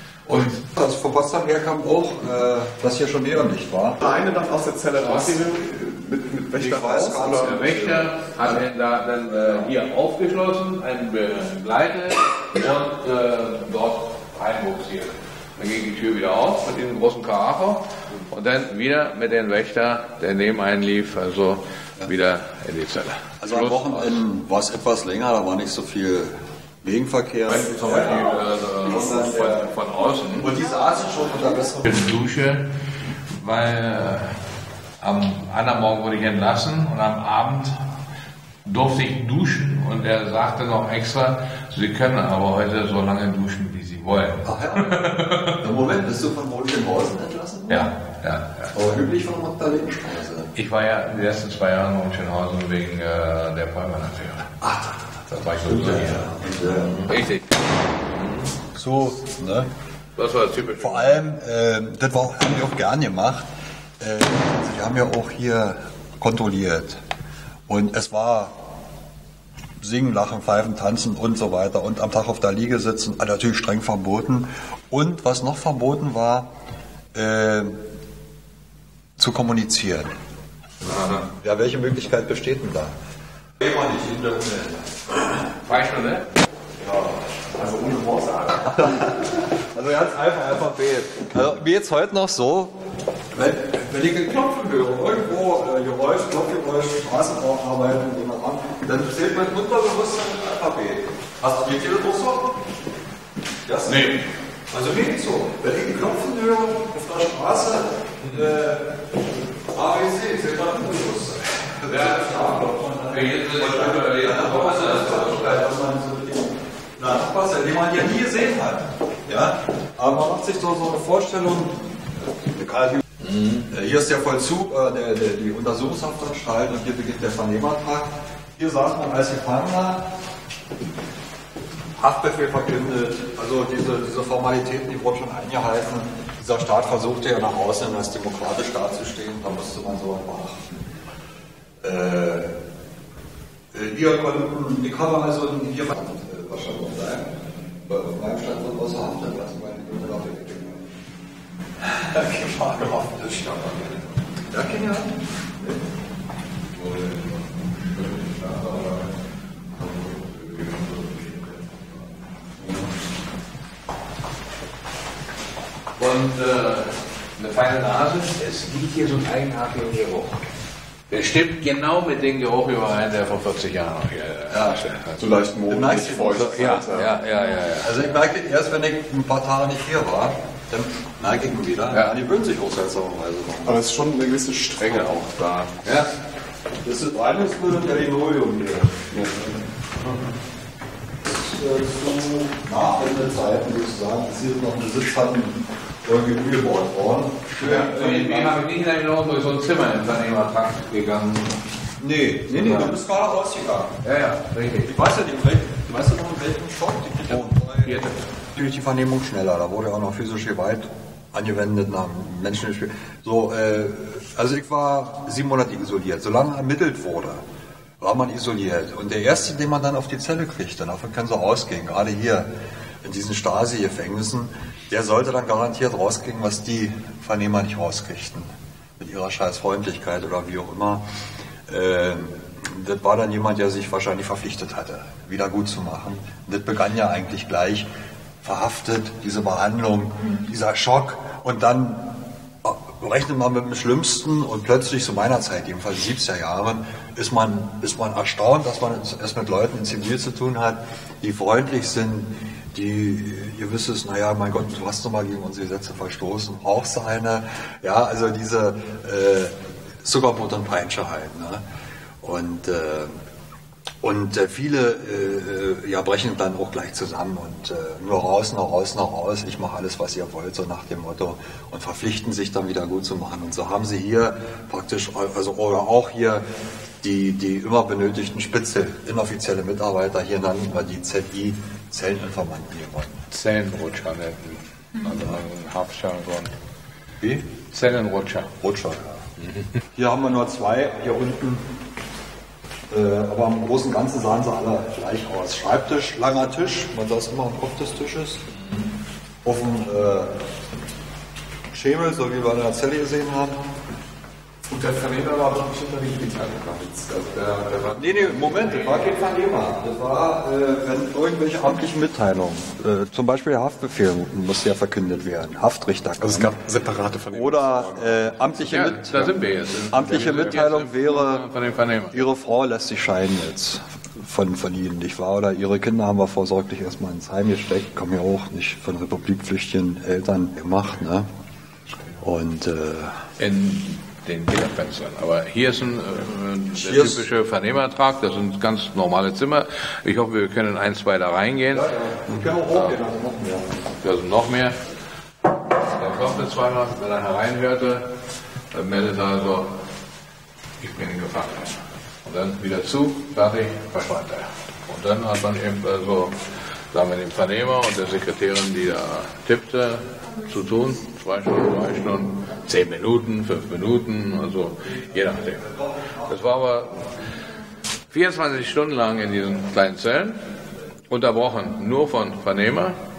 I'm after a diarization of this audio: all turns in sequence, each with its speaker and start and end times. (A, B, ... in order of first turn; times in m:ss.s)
0:00.3-0:04.0 A
0:04.0-0:08.1 B
0:05.0-0:05.3 C
0:06.5-0:07.7 A
0:07.3-0:24.2 C
0:23.4-0:29.7 A
0:27.5-0:30.5 C
0:30.4-0:31.9 A
0:31.8-0:32.7 C
0:33.3-0:34.4 C
0:35.0-0:37.8 C
0:38.6-0:45.6 C
0:44.4-0:47.9 A
0:47.7-0:48.7 C
0:48.7-0:50.5 A
0:50.5-0:54.6 C
0:54.6-0:57.1 A
0:55.3-0:58.5 C
0:58.7-0:59.7 A
1:00.2-1:01.2 C
1:00.8-1:03.4 A
1:04.0-1:07.0 A
1:07.7-1:08.6 A
1:09.8-1:16.5 A
1:17.1-1:17.8 A
1:19.2-1:20.1 A
1:20.9-1:21.2 C
1:21.2-1:22.9 A
1:23.6-1:25.7 A
1:25.6-1:26.2 C
1:26.8-1:27.2 A
1:27.5-1:29.1 B
1:28.5-1:32.8 A
1:33.3-1:42.6 A
1:43.6-1:44.1 A
1:43.9-1:44.3 C
1:44.7-1:49.0 A
1:48.2-1:48.5 C
1:49.7-2:03.0 A
1:51.9-1:52.5 C
1:53.1-1:55.7 C
2:03.2-2:03.7 C
2:03.7-2:10.1 A
2:12.0-2:20.8 A
2:21.8-2:22.5 A
2:23.7-2:27.3 A
2:27.8-2:30.9 A
2:31.8-2:33.8 A
2:34.5-2:35.8 A
2:36.7-2:39.1 C
2:39.8-2:41.9 C
2:42.6-2:42.9 A
2:46.0-2:50.4 C
2:51.1-2:55.5 C
2:54.5-2:54.8 A
2:55.2-2:57.2 B
2:55.6-2:56.8 A
2:56.3-2:58.0 C
2:57.7-3:03.8 A
3:03.6-3:05.8 B
3:04.8-3:05.2 C
3:05.8-3:06.1 C
3:06.8-3:09.2 A
3:11.2-3:18.6 A
3:17.6-3:21.6 C
3:22.0-3:24.0 A
3:22.5-3:23.0 C
3:24.0-3:25.0 C
3:24.8-3:37.4 A
3:27.3-3:28.2 C
3:38.0-3:42.5 A
3:43.0-3:51.0 A
3:51.7-3:57.9 A
3:58.4-4:21.6 A
4:22.2-4:23.2 A
4:24.0-4:36.4 A
4:37.0-4:43.3 A
4:43.3-4:46.5 C
4:47.2-4:47.5 A
4:47.7-4:48.5 C
4:48.6-4:49.2 A
4:49.4-4:49.7 C
4:49.9-4:51.7 A
4:52.9-4:58.5 A
4:59.4-5:00.4 A
5:01.7-5:03.6 A
5:04.7-5:09.1 B
5:07.9-5:16.6 A
5:16.2-5:19.3 B
5:17.3-5:19.3 A
5:18.7-5:22.2 C
5:19.9-5:21.4 A
5:22.1-5:31.3 A
5:32.2-5:33.3 A
5:33.4-5:41.9 C
5:36.7-5:37.2 A
5:41.7-5:43.7 A
5:42.7-5:43.0 C
5:44.0-5:44.8 C
5:45.9-5:48.1 C
5:48.7-5:49.7 C
5:50.8-6:07.1 C
6:05.1-6:06.3 A
6:08.1-6:10.4 C
6:11.1-6:13.0 C